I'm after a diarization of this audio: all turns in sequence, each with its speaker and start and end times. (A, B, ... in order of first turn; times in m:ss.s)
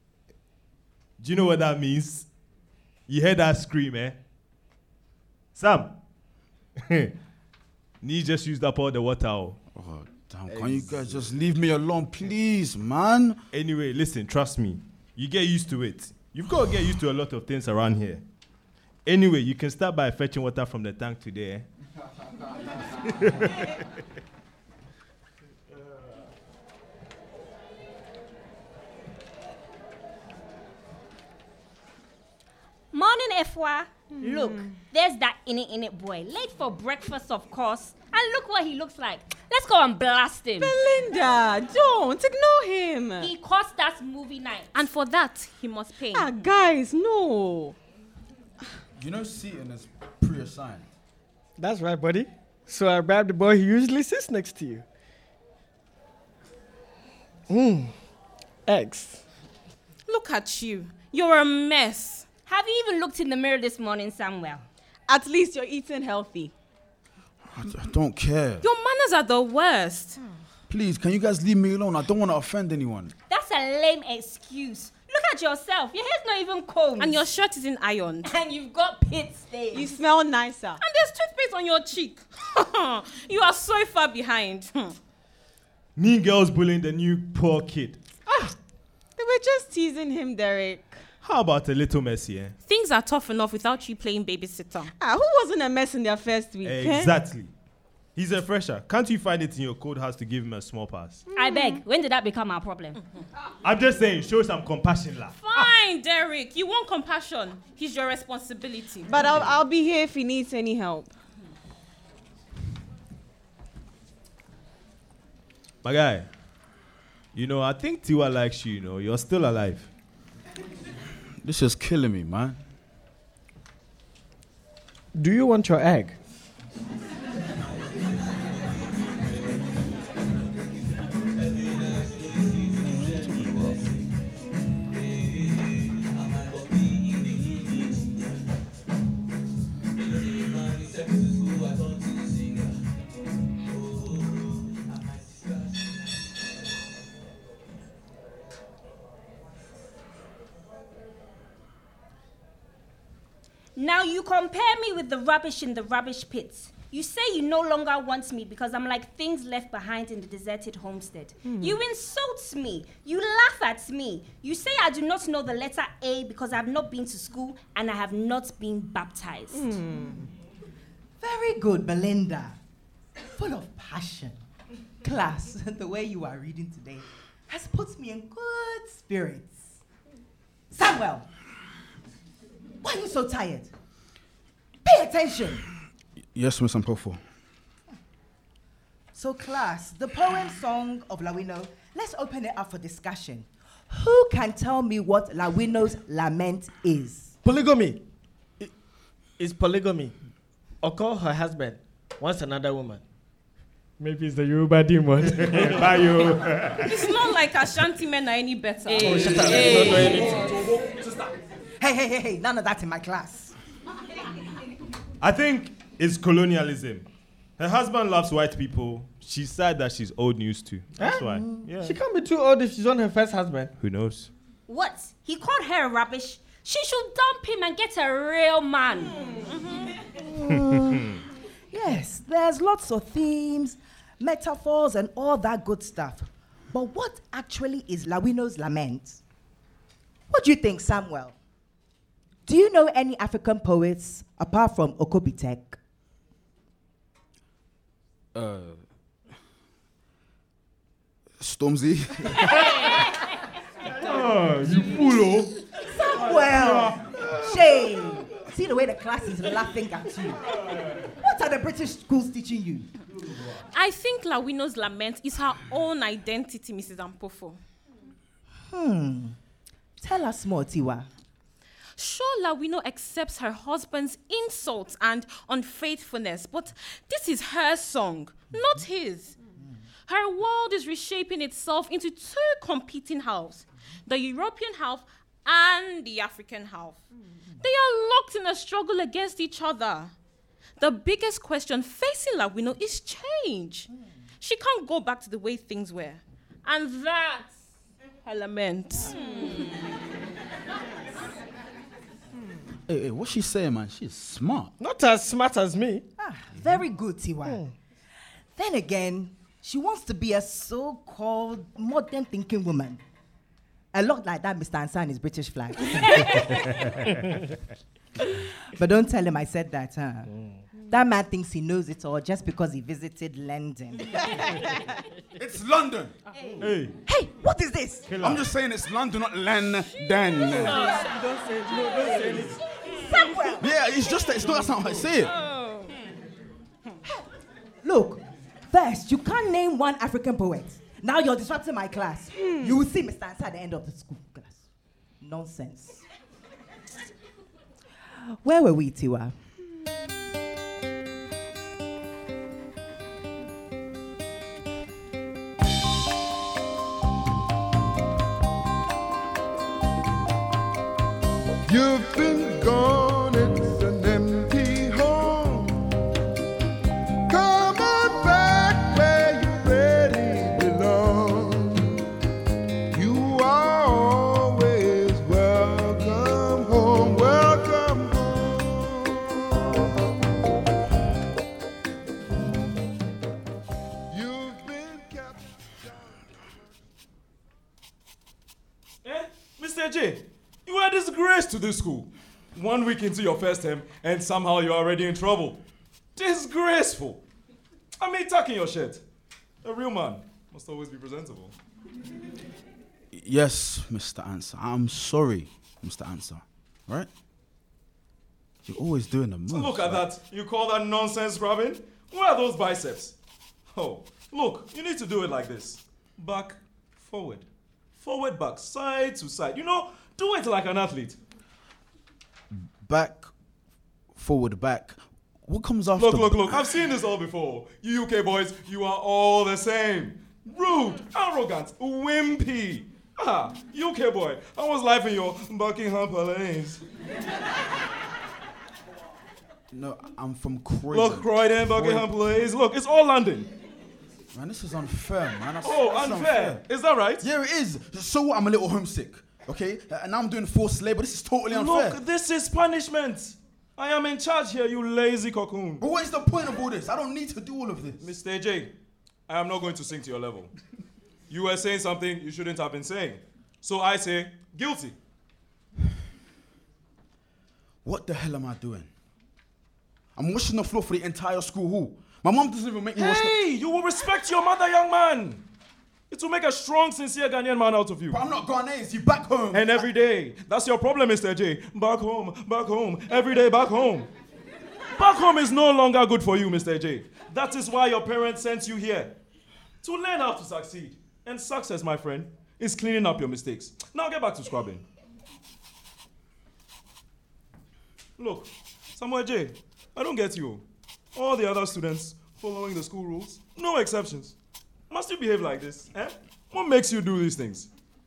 0:01.2-0:02.3 A
0:03.1-0:04.2 A
0:05.6-0:06.0 A
0:06.8-0:07.1 A
0:08.0-0:09.6 A
0:09.7-0:13.4 B
0:10.6-0:10.8 A
0:13.5-0:18.2 A
0:19.1-0:21.6 A
0:23.1-0:23.8 A
0:32.9-0:40.7 C
0:34.2-0:34.8 D
0:40.6-0:43.3 D
0:43.2-0:44.7 C
0:44.7-0:46.3 E
0:46.1-0:47.8 D
0:49.0-0:50.9 B
0:51.6-0:54.8 F
0:57.5-0:57.9 F
0:58.7-0:59.2 F
1:00.1-1:02.3 E
1:02.5-1:04.6 C
1:05.1-1:06.5 D
1:07.5-1:08.6 B
1:08.6-1:10.2 E
1:10.7-1:13.1 B
1:13.3-1:17.3 C
1:17.0-1:18.3 E
1:18.2-1:20.0 C
1:19.7-1:20.8 D
1:20.8-1:25.0 E
1:26.0-1:28.0 A
1:29.2-1:31.0 D
1:31.2-1:32.6 A
1:32.7-1:34.9 E
1:35.0-1:37.1 D
1:36.6-1:37.5 A
1:38.2-1:41.2 A
1:41.4-1:43.0 C
1:41.4-1:41.8 D
1:43.6-1:45.7 A
1:45.4-1:49.2 E
1:49.1-1:51.1 D
1:55.8-1:56.3 A
1:57.4-1:59.9 A
2:01.4-2:02.6 B
2:05.1-2:06.2 F
2:12.9-2:13.8 B
2:33.8-2:49.7 C
2:41.4-2:41.8 D
2:49.5-2:50.3 D
2:51.2-2:52.6 G
2:53.3-2:54.4 G
2:55.0-2:59.8 G
3:00.7-3:01.3 G
3:02.8-3:03.7 G
3:04.8-3:05.6 G
3:06.4-3:07.2 B
3:09.1-3:17.4 G
3:17.4-3:18.0 F
3:19.4-3:20.1 F
3:20.8-3:23.0 F
3:24.0-3:26.0 F
3:25.3-3:27.0 A
3:26.8-3:30.0 E
3:28.9-3:30.5 F
3:29.0-3:30.5 D
3:29.3-3:29.6 A
3:31.8-3:33.5 G
3:35.2-3:37.1 A
3:37.6-3:42.0 A
3:41.0-3:43.7 F
3:43.8-3:44.3 A
3:44.7-3:49.6 C
3:50.4-3:51.0 G
3:51.7-3:59.2 G
4:00.3-4:01.4 G
4:02.5-4:05.8 G
4:08.3-4:08.8 B
4:11.4-4:12.6 B
4:13.9-4:15.5 A
4:15.9-4:22.9 G
4:16.2-4:17.0 A
4:23.7-4:27.6 E
4:28.7-4:29.4 G
4:30.0-4:31.1 G
4:32.0-4:39.4 E
4:40.1-4:47.0 E
4:47.6-4:50.1 E
4:50.8-4:53.9 E
4:54.4-4:57.5 E
4:58.2-4:59.8 E
5:02.9-5:04.7 B
5:04.8-5:06.0 F
5:06.2-5:07.6 G
5:07.4-5:07.7 F
5:08.6-5:13.0 G
5:13.9-5:17.3 G
5:18.4-5:24.7 G
5:25.3-5:26.1 B
5:26.6-5:27.0 A
5:27.1-5:28.1 G
5:28.1-5:28.5 A
5:28.2-5:30.9 B
5:30.8-5:32.6 F
5:32.9-5:33.7 G
5:33.6-5:35.4 B
5:37.8-5:44.6 G
5:42.4-5:42.8 D
5:45.2-5:46.0 G
5:48.4-5:49.4 G
6:01.7-6:06.0 H
6:07.3-6:12.0 H
6:12.9-6:20.0 H
6:24.1-6:26.1 H
6:29.0-6:35.6 I
6:36.2-6:37.2 I
6:38.0-6:39.0 I
6:39.6-6:41.5 I
6:43.1-6:47.1 B
6:48.6-6:50.0 B
6:49.5-6:53.1 I
6:53.7-6:57.5 I
6:58.0-7:01.2 I
7:02.8-7:03.3 B
7:04.1-7:06.7 B
7:06.0-7:16.8 I
7:19.7-7:22.2 B
7:20.9-7:23.5 I
7:24.3-7:26.6 B
7:25.6-7:27.2 I
7:27.2-7:32.0 B
7:31.5-7:35.8 I
7:35.8-7:38.1 B
7:38.0-7:38.7 I
7:39.3-7:40.5 I
7:41.3-7:45.0 I
7:47.8-7:48.9 B
7:50.2-7:53.4 B
7:53.0-7:55.4 I
7:56.1-7:58.2 I
7:58.1-7:59.9 B
7:59.5-8:04.1 I
8:05.0-8:09.1 I
8:09.8-8:14.8 I
8:18.2-8:20.6 I
8:21.2-8:24.4 I
8:24.9-8:27.7 I